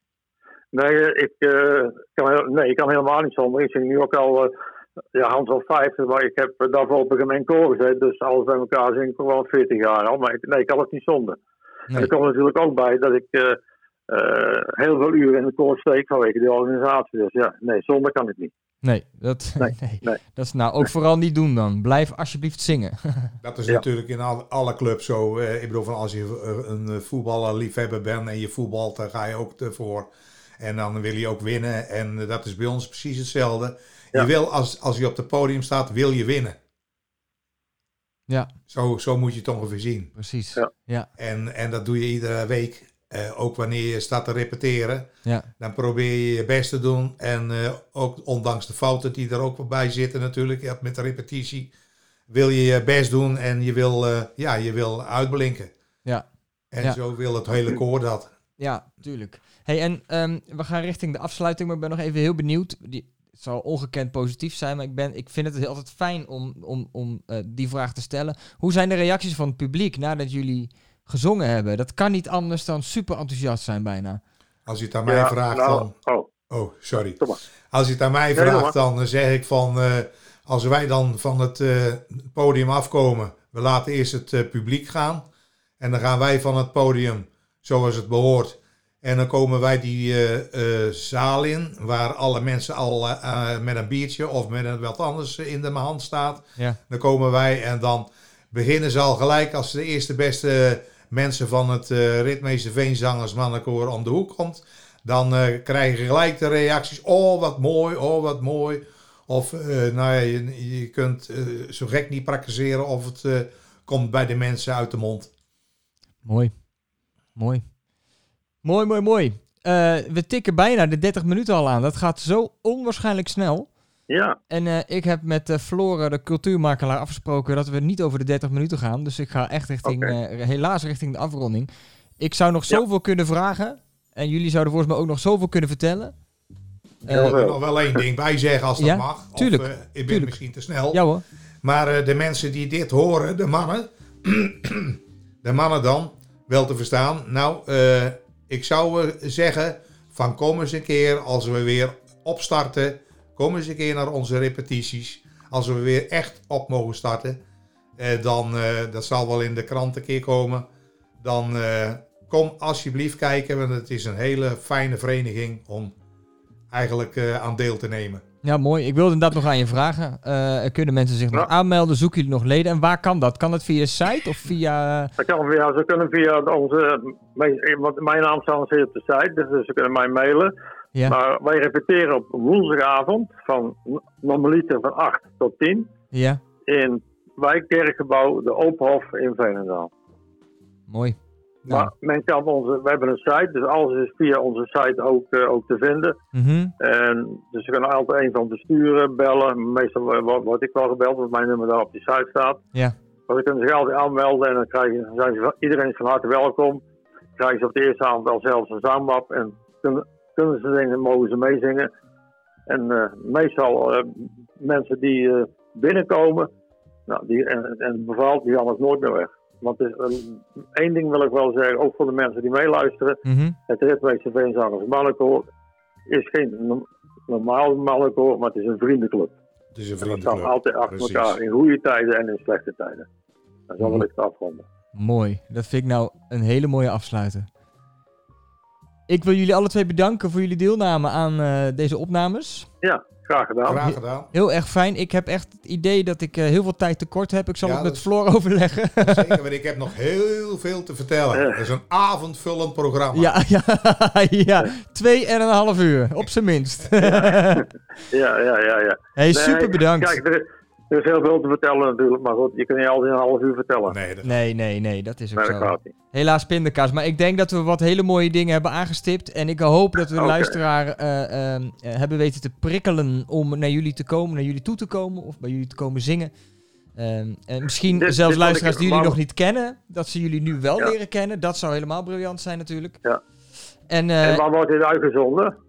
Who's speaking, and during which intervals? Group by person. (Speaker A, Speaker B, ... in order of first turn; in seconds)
Speaker A: 0.7-4.5, 5.2-11.4, 12.0-18.5, 19.6-20.2, 75.1-76.3, 78.4-78.7, 124.1-124.4, 129.8-130.2, 137.1-138.0, 175.2-180.5, 181.1-185.9, 186.7-189.9, 191.7-196.2, 196.8-202.6, 203.3-206.8, 207.4-211.9, 212.7-216.5, 217.1-225.5, 226.1-229.3, 230.0-233.1, 233.7-234.7, 242.8-243.9, 251.3-251.6, 257.0-264.0, 265.4-265.9, 270.2-270.6, 277.9-279.2, 284.2-285.6
Speaker B: 18.8-23.4, 38.3-38.5, 40.2-41.1, 58.6-74.2, 116.2-116.5, 117.4-117.7, 118.6-123.7, 124.5-136.1, 137.1-137.3, 138.8-140.4, 140.9-141.2, 168.4-175.1, 186.1-186.4, 190.9-191.2, 196.3-196.7, 223.2-223.6, 233.8-234.1, 234.9-237.5, 239.1-242.7, 244.3-249.4, 253.1-257.7, 259.2-260.2, 264.2-276.3, 276.9-283.0, 283.9-284.4
Speaker C: 23.4-36.6, 38.7-40.1, 41.2-51.7, 52.3-55.7, 56.7-58.3, 74.7-75.9, 76.5-77.2, 77.7-85.2, 85.8-115.3, 137.1-141.0, 141.6-157.4, 158.0-160.7, 161.2-165.9, 166.7-168.2, 229.8-231.4, 243.7-244.3, 247.6-248.1, 249.0-253.3, 263.9-264.4